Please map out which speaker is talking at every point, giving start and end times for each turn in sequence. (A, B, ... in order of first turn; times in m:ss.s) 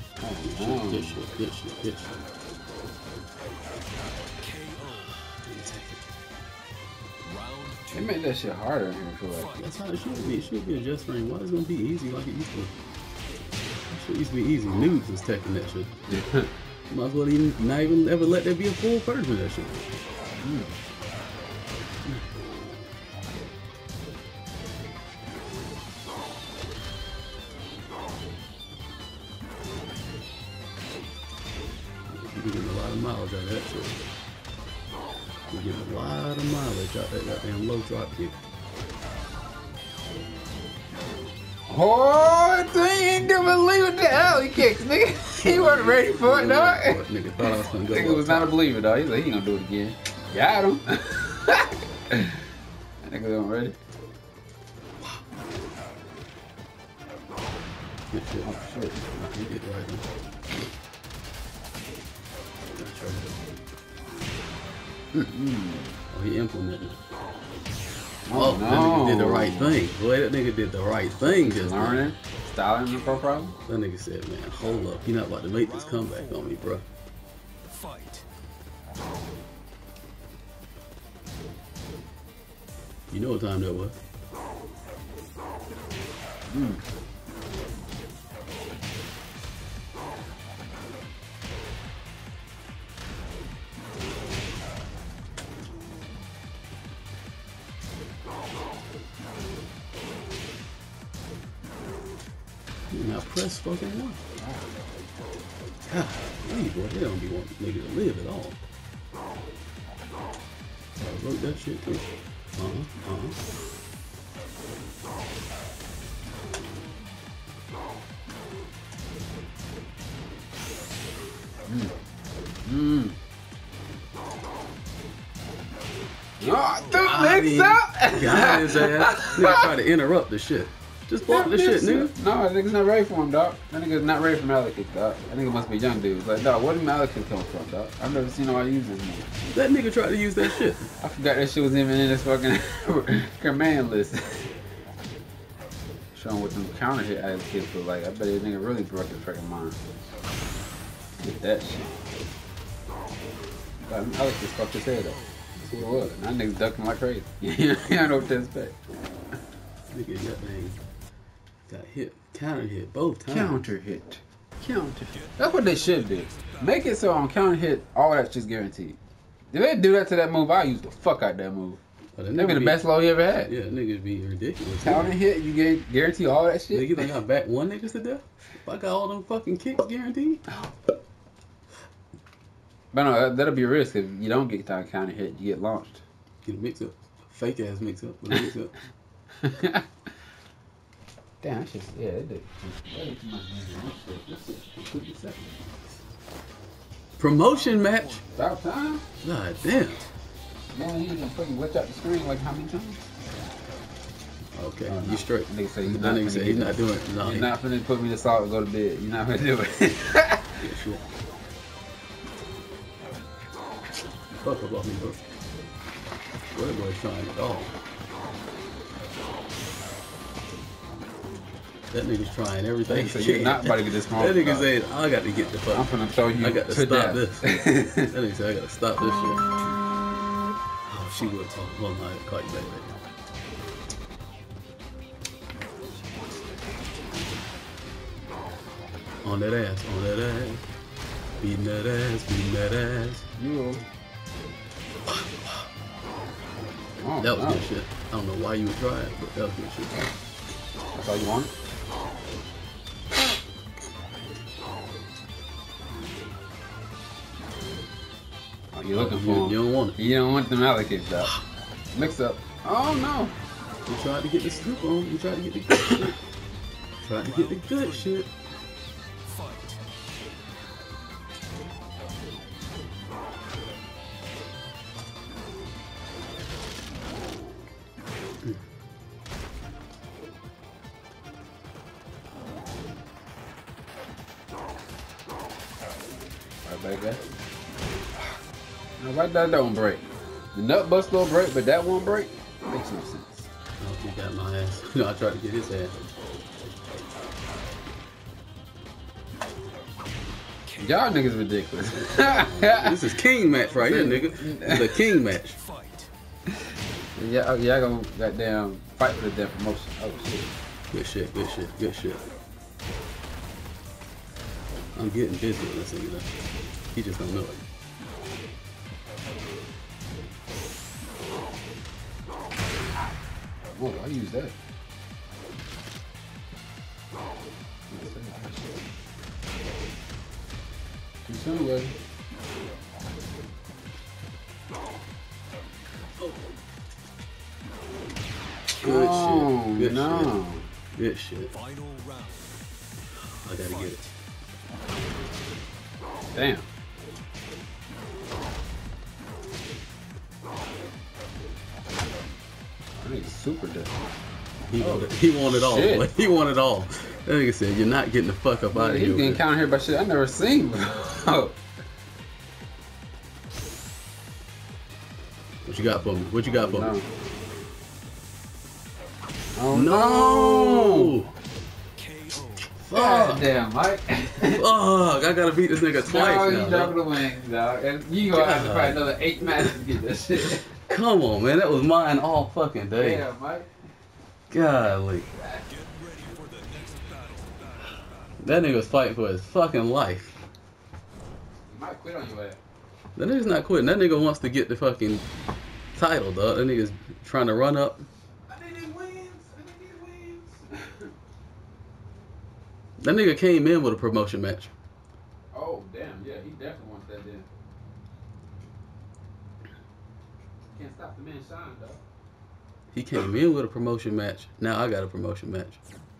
0:00.2-0:01.2 A
0:00.4-0:02.2 B
0:04.5-0:05.1 C
0:05.3-0:06.0 B
0:07.2-0:08.0 C
0:07.9-0:09.5 A
0:09.6-0:12.7 B
0:13.8-0:15.9 B
0:16.1-0:16.5 A
0:16.9-0:19.8 B
0:20.4-0:20.7 A
0:32.1-0:34.0 B
0:35.5-0:38.4 B
0:41.7-0:52.4 A
0:45.4-0:48.6 B
0:53.0-0:53.8 A
0:58.1-0:58.5 B
0:58.4-0:59.0 A
0:59.1-1:00.0 B
1:02.7-1:03.4 B
1:05.1-1:06.0 A
1:06.1-1:07.0 B
1:08.3-1:09.8 A
1:08.3-1:12.1 B
1:11.2-1:13.6 A
1:13.7-1:16.8 B
1:17.8-1:18.2 C
1:23.1-1:24.0 B
1:26.5-1:26.8 A
1:42.9-1:44.2 B
1:44.4-1:44.7 A
1:45.9-1:48.6 B
1:51.0-1:52.0 B
1:52.6-1:53.4 B
2:01.7-2:01.9 A
2:02.6-2:03.2 A
2:06.4-2:09.6 A
2:06.9-2:12.1 B
2:11.3-2:19.3 A
2:19.5-2:20.9 B
2:20.5-2:24.5 A
2:26.1-2:29.8 A
2:31.2-2:32.0 A
2:33.9-2:38.8 A
2:35.6-2:36.1 B
2:39.9-2:40.8 B
2:41.7-2:43.6 B
2:43.3-2:49.0 A
2:49.5-2:51.8 A
2:52.2-2:55.1 B
2:52.4-2:53.5 A
2:54.8-2:57.1 A
2:56.7-3:00.5 B
3:02.9-3:06.0 A
3:06.4-3:08.7 B
3:09.4-3:09.8 A
3:11.4-3:15.7 A
3:17.2-3:18.2 B
3:17.6-3:18.2 C
3:18.3-3:19.0 A
3:19.2-3:20.0 B
3:20.7-3:23.0 A
3:24.6-3:27.5 B
3:24.9-3:30.6 A
3:30.6-3:31.0 B
3:34.4-3:35.2 B
3:36.5-3:37.7 B
3:41.9-3:49.5 B
3:42.9-3:44.7 A
3:45.7-3:48.1 A
3:50.8-3:52.9 B
3:59.2-4:00.6 B
4:01.4-4:03.2 B
4:03.4-4:03.8 A
4:05.1-4:05.5 B
4:07.0-4:07.7 A
4:07.2-4:10.1 B
4:10.9-4:11.5 A
4:18.7-4:21.4 A
4:18.9-4:20.0 B
4:21.9-4:23.4 A
4:23.9-4:26.2 B
4:27.0-4:28.3 B
4:27.5-4:27.8 C
4:29.4-4:29.6 C
4:46.6-4:47.2 A
4:49.0-4:53.5 A
4:53.8-4:55.9 B
5:00.8-5:02.9 A
5:01.9-5:05.6 B
5:03.8-5:04.9 A
5:07.2-5:10.5 A
5:10.9-5:12.2 B
5:14.9-5:16.3 B
5:16.9-5:17.6 B
5:23.7-5:24.5 A
5:27.9-5:28.8 A
5:31.2-5:31.9 A
5:38.8-5:40.4 B
5:38.8-5:40.7 A
5:40.9-5:41.5 B
5:41.6-5:42.5 C
5:43.4-5:44.0 B
5:46.3-5:46.6 A
5:53.0-5:54.1 A
5:54.7-5:59.4 B
5:54.8-5:56.0 A
5:58.7-6:01.6 A
6:05.6-6:07.0 B
6:06.5-6:07.1 A
6:09.5-6:11.2 A
6:09.7-6:11.3 B
6:12.0-6:12.6 C
6:12.7-6:13.5 B
6:12.9-6:14.6 A
6:14.4-6:17.1 B
6:16.0-6:20.8 A
6:18.3-6:19.6 B
6:20.9-6:23.3 B
6:23.0-6:23.7 A
6:24.5-6:25.3 B
6:25.7-6:27.8 C
6:28.4-6:30.3 B
6:31.6-6:32.6 A
6:33.2-6:35.2 B
6:35.9-6:38.0 B
6:38.5-6:41.1 A
6:43.0-6:44.7 B
6:45.5-6:47.5 A
6:50.7-6:52.0 A
6:52.9-6:55.8 B